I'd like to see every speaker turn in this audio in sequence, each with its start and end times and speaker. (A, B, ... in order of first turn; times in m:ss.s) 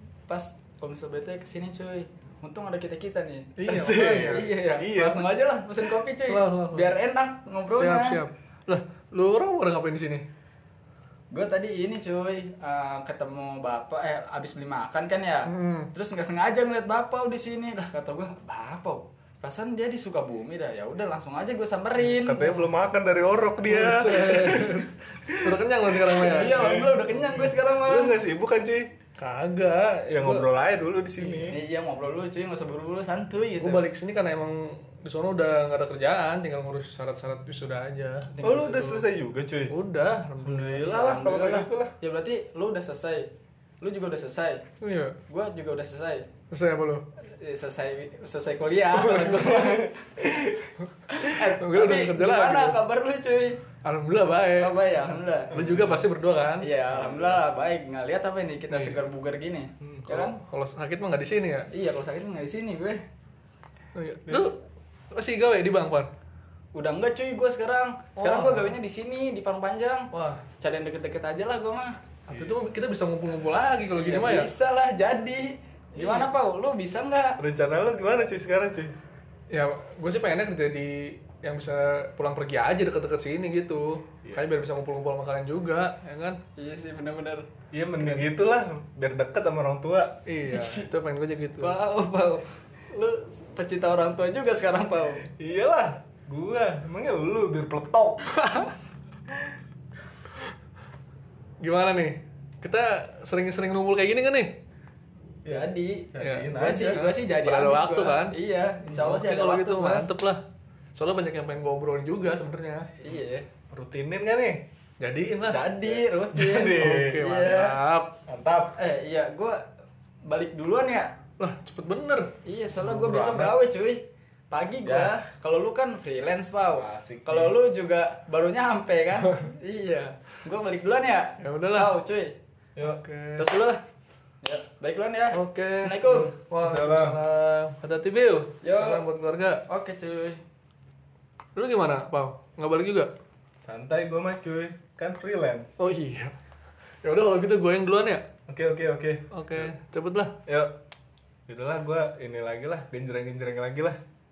0:00.3-0:08.2 A
0:03.6-0:04.5 B
0:03.7-0:05.3 C
0:06.2-0:06.9 B
0:07.7-0:10.3 B
0:11.3-0:22.7 A
0:15.5-0:15.9 B
0:22.0-0:28.9 C
0:23.6-0:26.6 B
0:26.1-0:28.2 A
0:29.2-0:30.5 B
0:30.1-0:31.6 C
0:31.2-0:33.8 A
0:33.6-0:38.3 B
0:38.3-0:39.0 A
0:38.4-0:39.7 C
0:39.7-0:40.8 B
0:40.4-0:41.9 C
0:40.8-0:43.3 A
0:43.8-0:44.6 A
0:44.8-0:45.2 B
0:45.3-0:46.3 A
0:46.5-0:47.0 B
0:47.2-0:50.3 A
0:49.0-0:50.7 C
0:51.1-0:53.6 A
0:51.4-0:52.8 B
0:53.8-0:54.8 B
0:54.6-0:55.6 A
0:55.5-0:56.7 B
0:55.5-0:56.1 C
0:56.6-1:00.4 A
0:57.0-0:57.4 C
0:58.7-0:59.0 B
1:00.1-1:01.7 B
1:01.7-1:03.0 A
1:03.9-1:04.6 B
1:04.3-1:04.5 C
1:05.1-1:06.1 B
1:06.7-1:12.0 A
1:08.2-1:08.8 B
1:10.1-1:10.4 B
1:12.3-1:14.5 B
1:13.9-1:17.4 A
1:16.0-1:16.3 B
1:17.4-1:19.0 C
1:19.5-1:26.4 B
1:26.6-1:27.5 A
1:27.7-1:30.2 C
1:30.2-1:31.8 B
1:30.5-1:30.9 A
1:31.6-1:35.2 A
1:35.3-1:38.4 C
1:41.6-1:44.6 B
1:45.4-1:47.0 C
1:45.4-1:50.1 A
1:46.2-1:48.3 B
1:48.9-1:50.4 B
1:50.9-1:52.9 B
1:53.0-1:53.5 A
1:53.7-1:54.6 C
1:55.0-1:55.6 B
1:55.4-1:57.8 A
1:55.9-1:57.3 C
1:56.6-1:58.1 B
1:58.3-1:58.8 C
1:58.8-1:59.6 A
2:00.2-2:01.1 A
2:01.4-2:03.5 B
2:02.4-2:12.3 A
2:04.8-2:05.2 C
2:06.7-2:07.5 C
2:11.4-2:11.9 B
2:12.8-2:13.0 C
2:12.8-2:13.5 B
2:13.4-2:13.8 A
2:14.4-2:16.3 A
2:15.3-2:19.6 B
2:16.6-2:17.2 C
2:18.6-2:19.0 A
2:19.7-2:20.4 A
2:21.6-2:23.1 B
2:23.6-2:25.7 C
2:25.8-2:26.3 B
2:27.0-2:28.2 B
2:28.5-2:29.7 C
2:29.3-2:30.4 B
2:30.4-2:30.8 C
2:31.5-2:34.0 C